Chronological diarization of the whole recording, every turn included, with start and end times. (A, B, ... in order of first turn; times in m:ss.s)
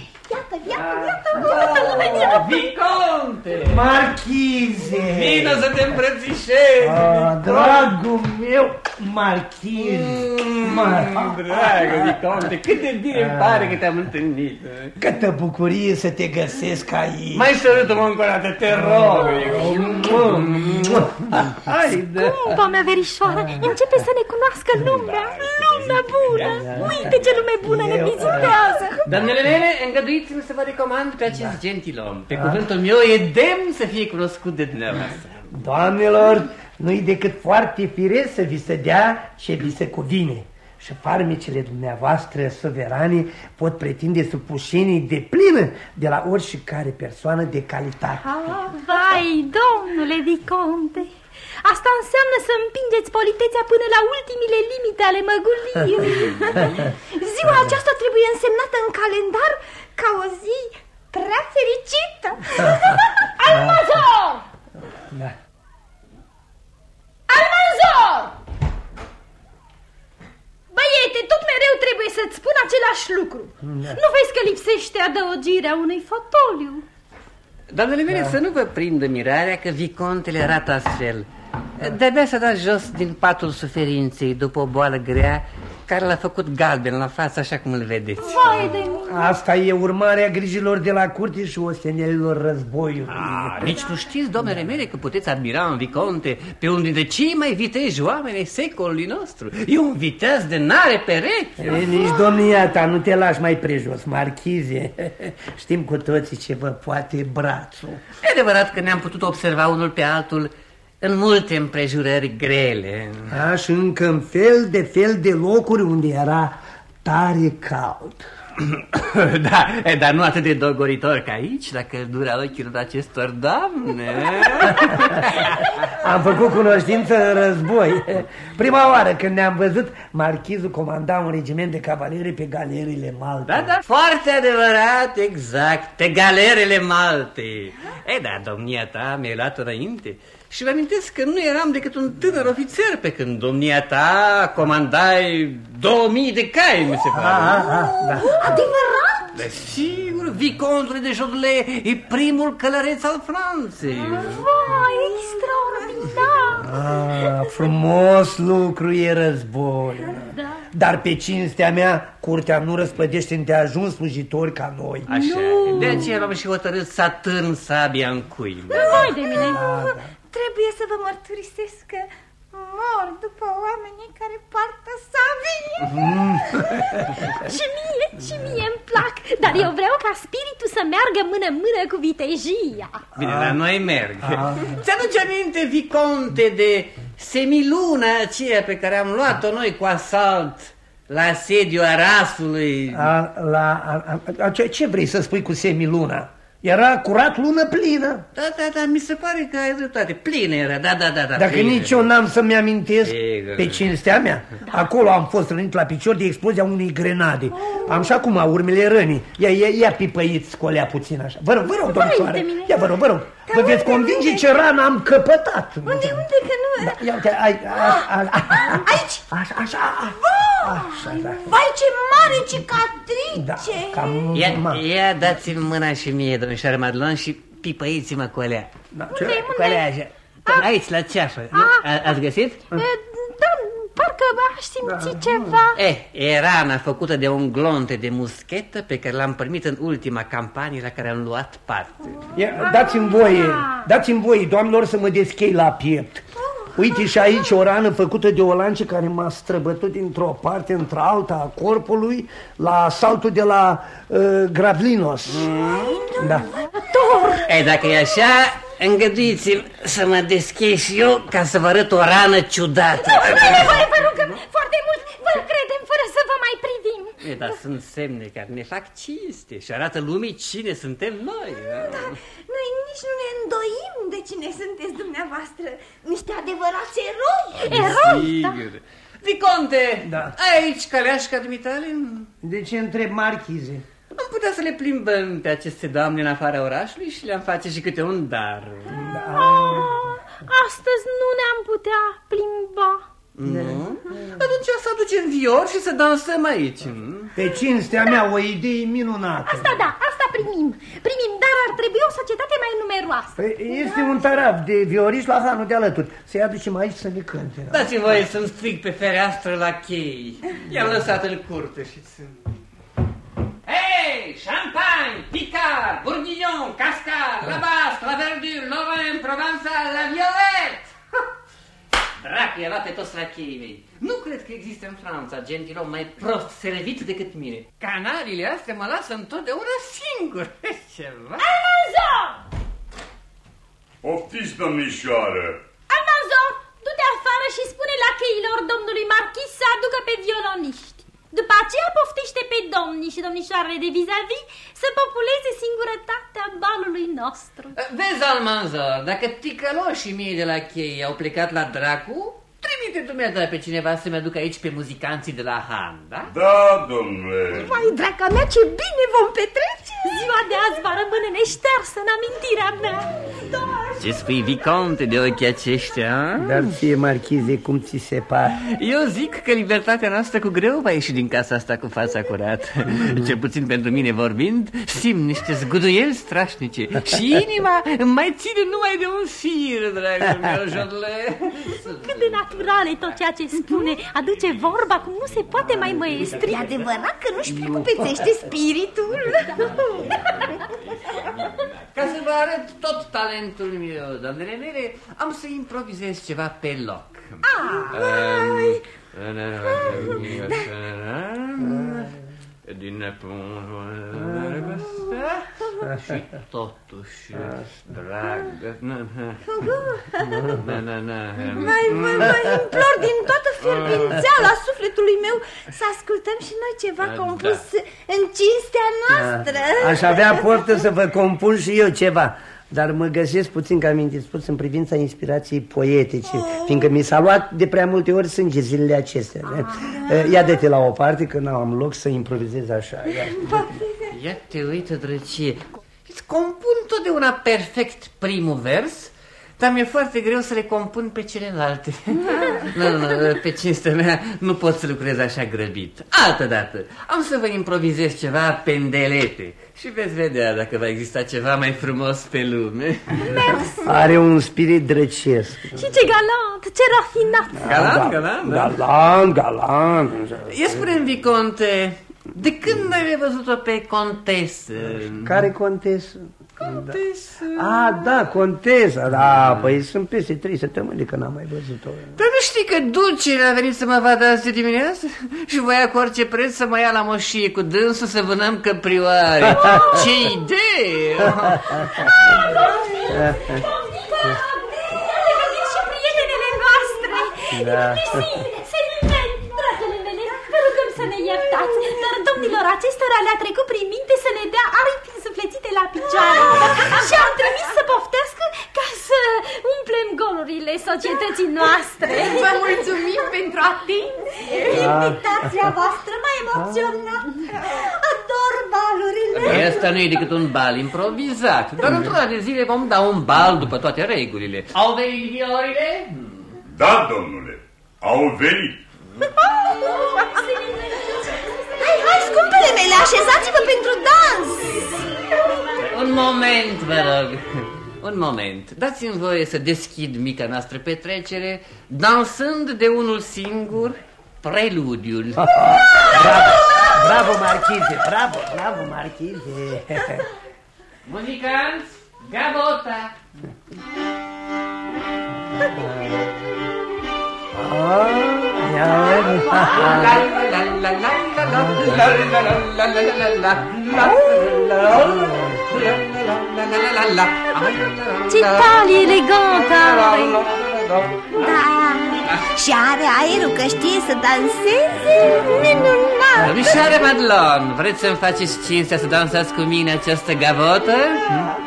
0:00.3-0:02.4 A
0:00.8-0:01.5 B
0:01.4-0:03.9 C
0:02.1-0:02.4 B
0:03.6-0:05.7 B
0:05.0-0:08.0 C
0:06.8-0:12.5 B
0:09.8-0:15.0 C
0:13.1-0:13.8 B
0:15.0-0:17.6 B
0:17.3-0:21.2 C
0:18.7-0:22.6 B
0:22.1-0:29.0 D
0:23.3-0:23.8 B
0:24.9-0:27.5 C
0:26.4-0:28.6 B
0:29.0-0:35.5 C
0:32.3-0:32.6 B
0:35.5-0:48.2 B
0:48.4-0:51.1 D
0:51.6-0:56.7 D
0:56.2-1:02.9 A
1:03.4-1:04.4 D
1:03.5-1:03.8 B
1:07.3-1:08.3 D
1:10.7-1:16.9 D
1:13.6-1:14.0 B
1:17.7-1:21.3 C
1:21.8-1:28.7 C
1:28.2-1:29.3 D
1:29.1-1:33.8 B
1:33.1-1:41.8 C
1:41.6-1:48.0 B
1:48.2-1:53.3 C
1:53.3-1:58.2 B
1:59.0-2:05.9 C
2:06.0-2:13.7 B
2:13.5-2:27.7 C
2:27.1-2:28.4 B
2:28.1-2:29.3 A
2:28.2-2:28.8 D
2:29.3-2:34.5 C
2:33.9-2:36.7 D
2:36.6-2:45.1 B
2:40.2-2:40.6 D
2:45.1-2:49.0 C
2:45.1-2:46.1 D
2:48.7-2:49.7 D
2:48.7-2:49.8 A
2:49.4-2:50.1 B
2:50.3-2:56.7 A
2:55.9-2:57.0 B
2:57.4-3:03.0 D
3:03.2-3:13.1 C
3:03.2-3:03.6 B
3:04.2-3:04.8 B
3:12.9-3:18.2 B
3:18.3-3:22.1 C
3:21.4-3:36.3 B
3:23.0-3:24.0 C
3:31.8-3:32.8 D
3:33.5-3:34.5 A
3:35.9-3:37.1 A
3:36.8-3:41.4 B
3:37.8-3:39.3 A
3:40.1-3:44.2 A
3:43.4-3:44.8 B
3:44.3-3:48.7 C
3:48.9-3:50.1 B
3:49.1-3:49.9 D
3:50.5-3:52.6 C
3:51.5-3:51.9 D
3:52.7-3:55.8 D
3:54.8-3:55.6 B
3:55.8-4:02.2 C
4:02.3-4:06.2 B
4:02.6-4:03.9 D
4:06.4-4:07.2 A
4:06.8-4:15.5 B
4:15.3-4:15.9 C
4:15.6-4:16.4 A
4:16.2-4:16.5 B
4:16.7-4:17.6 D
4:17.5-4:23.9 C
4:23.0-4:27.2 D
4:27.2-4:32.1 C
4:31.8-4:38.3 A
4:37.6-4:42.3 C
4:37.7-4:38.6 D
4:40.0-4:40.4 B
4:42.4-4:43.8 B
4:44.1-4:49.0 C
4:48.9-4:50.2 B
4:49.3-4:53.0 D
4:53.4-4:57.3 C
4:53.4-4:54.4 B
4:57.4-4:59.9 B
4:59.5-5:04.2 D
5:03.4-5:08.2 B
5:07.7-5:12.4 C
5:13.6-5:21.0 C
5:22.2-5:31.5 C
5:31.4-5:32.4 D
5:34.0-5:35.6 E
5:35.9-5:47.8 D
5:47.8-5:56.3 C
5:56.3-5:57.8 E
5:57.5-6:00.4 A
6:00.1-6:03.1 D
6:04.0-6:06.7 C
6:06.4-6:08.6 B
6:08.6-6:23.2 C
6:22.1-6:26.7 D
6:26.3-6:30.5 A
6:31.2-6:42.1 C
6:37.4-6:38.8 A
6:39.8-6:40.6 A
6:42.6-6:49.4 C
6:49.5-6:50.6 A
6:50.6-6:52.3 C
6:51.5-7:00.6 A
6:53.7-6:54.2 C
6:57.0-6:57.6 C
6:59.1-7:13.6 B
7:06.2-7:06.9 A
7:13.4-7:14.0 A
7:14.1-7:33.2 C
7:33.8-7:35.9 B
7:35.8-7:37.8 D
7:37.6-7:40.5 B
7:37.6-7:38.8 C
7:40.5-7:45.4 C
7:45.2-7:47.0 B
7:46.6-7:48.0 C
7:47.6-7:52.1 B
7:49.2-7:49.8 C
7:52.2-8:01.6 C
7:59.6-7:59.9 D
8:01.7-8:22.7 D
8:03.1-8:03.7 B
8:07.5-8:08.3 B
8:16.4-8:16.8 A
8:22.5-8:23.3 A
8:24.4-8:30.2 A
8:24.7-8:25.2 B
8:26.6-8:26.9 B
8:29.3-8:36.6 C
8:36.7-8:38.8 E
8:39.7-8:41.6 D
8:41.8-8:45.0 A
8:45.8-8:55.5 C
8:55.4-9:00.3 B
9:01.0-9:03.1 C
9:05.8-9:06.1 B
9:07.5-9:10.2 B
9:09.2-9:18.7 C
9:11.5-9:11.8 B
9:13.9-9:14.2 B
9:14.9-9:15.6 B
9:18.3-9:20.4 D
9:21.4-9:26.8 A
9:26.4-9:31.5 C